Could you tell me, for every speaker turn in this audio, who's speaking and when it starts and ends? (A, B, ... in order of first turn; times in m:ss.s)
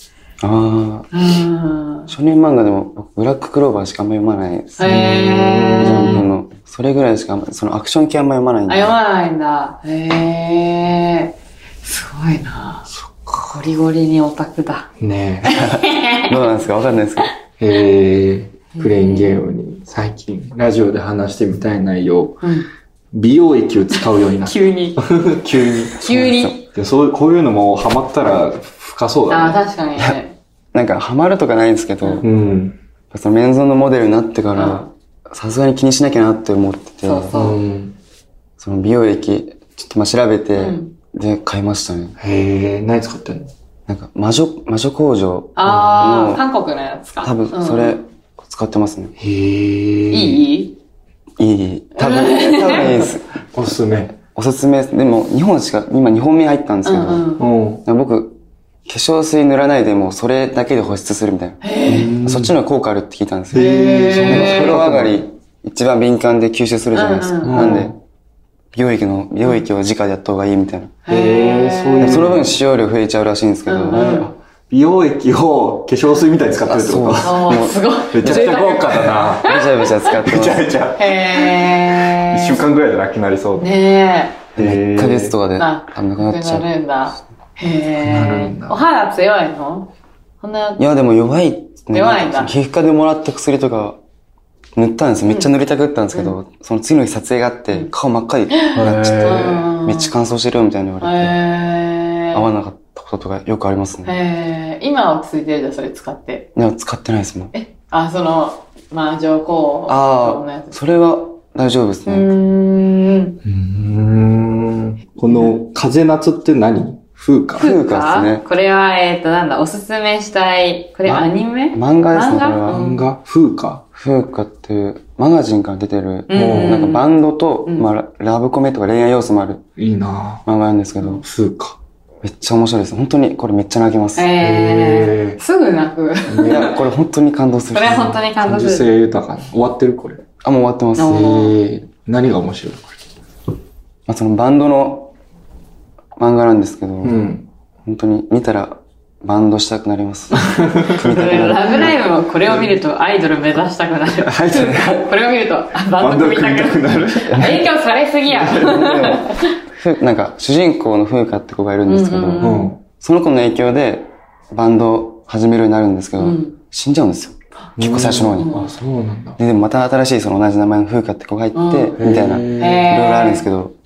0:00.4-0:01.1 A
0:01.1-0:02.1 B
0:02.1-0:05.2 A
0:04.8-0:06.2 B
0:04.8-0:06.3 C
0:05.8-0:09.0 A
0:08.7-0:12.9 B
0:12.9-0:13.6 C
0:13.5-0:14.9 B
0:15.0-0:15.6 C
0:15.4-0:16.4 B
0:15.6-0:17.3 A
0:17.6-0:22.5 C
0:18.8-0:19.4 B
0:22.4-0:22.7 B
0:23.1-0:26.1 C
0:24.4-0:25.0 B
0:26.0-0:26.7 B
0:26.0-0:26.5 A
0:26.7-0:29.6 C
0:29.3-0:30.4 B
0:30.7-0:32.2 A
0:32.2-0:32.8 C
0:33.1-0:37.4 A
0:34.6-0:34.9 B
0:37.0-0:37.6 B
0:37.3-0:38.0 C
0:38.6-0:42.2 A
0:40.6-0:40.9 B
0:42.2-0:43.5 C
0:43.9-0:46.4 A
0:45.6-0:48.0 B
0:47.2-0:49.1 A
0:49.2-0:50.4 C
0:50.1-0:50.8 B
0:51.4-0:53.4 A
0:52.0-0:53.1 B
0:53.5-0:54.1 C
0:54.1-0:57.3 A
0:56.8-0:57.4 B
0:57.4-0:57.8 C
0:57.8-1:07.9 A
1:01.6-1:02.1 B
1:01.9-1:02.6 C
1:03.5-1:05.2 C
1:03.5-1:04.8 B
1:06.9-1:07.8 B
1:07.4-1:08.0 C
1:08.7-1:11.0 A
1:11.1-1:12.3 B
1:11.1-1:12.6 C
1:12.0-1:14.3 A
1:13.7-1:14.3 B
1:13.9-1:23.8 C
1:16.7-1:20.7 A
1:17.2-1:19.9 B
1:21.0-1:22.6 B
1:23.6-1:24.4 B
1:24.6-1:25.4 C
1:24.6-1:26.7 A
1:25.6-1:29.9 B
1:28.0-1:28.8 C
1:30.4-1:30.8 B
1:30.8-1:34.0 A
1:31.9-1:32.5 B
1:34.8-1:41.4 A
1:38.5-1:40.1 B
1:38.7-1:39.6 C
1:41.0-1:42.5 B
1:42.3-1:44.2 A
1:44.0-1:46.5 B
1:46.6-1:47.5 A
1:47.5-1:50.8 B
1:49.9-1:52.3 A
1:52.1-1:53.4 B
1:53.4-1:57.7 C
1:55.3-1:55.5 B
1:57.6-1:58.4 A
1:57.6-2:03.0 B
2:01.7-2:02.8 A
2:02.7-2:03.8 C
2:04.0-2:09.6 A
2:06.3-2:07.1 B
2:06.3-2:06.9 C
2:09.8-2:10.4 C
2:10.4-2:11.2 A
2:11.2-2:11.8 C
2:12.2-2:14.3 A
2:14.2-2:16.8 B
2:14.4-2:15.4 C
2:16.3-2:16.7 C
2:16.4-2:18.2 A
2:17.7-2:18.9 B
2:17.8-2:20.2 C
2:20.4-2:21.3 A
2:21.0-2:21.6 B
2:21.1-2:23.0 C
2:24.1-2:25.1 A
2:26.2-2:27.2 A
2:27.0-2:27.5 C
2:27.8-2:32.0 A
2:30.3-2:39.5 B
2:30.6-2:31.0 C
2:34.2-2:35.2 C
2:36.0-2:37.6 C
2:37.3-2:37.6 A
2:38.4-2:38.7 C
2:38.4-2:48.6 A
2:41.9-2:42.7 B
2:42.4-2:42.8 C
2:46.2-2:46.6 B
2:47.8-2:49.4 C
2:48.3-2:48.7 B
2:49.4-2:53.8 A
2:51.5-2:52.0 B
2:52.0-2:53.0 C
2:52.6-2:53.4 B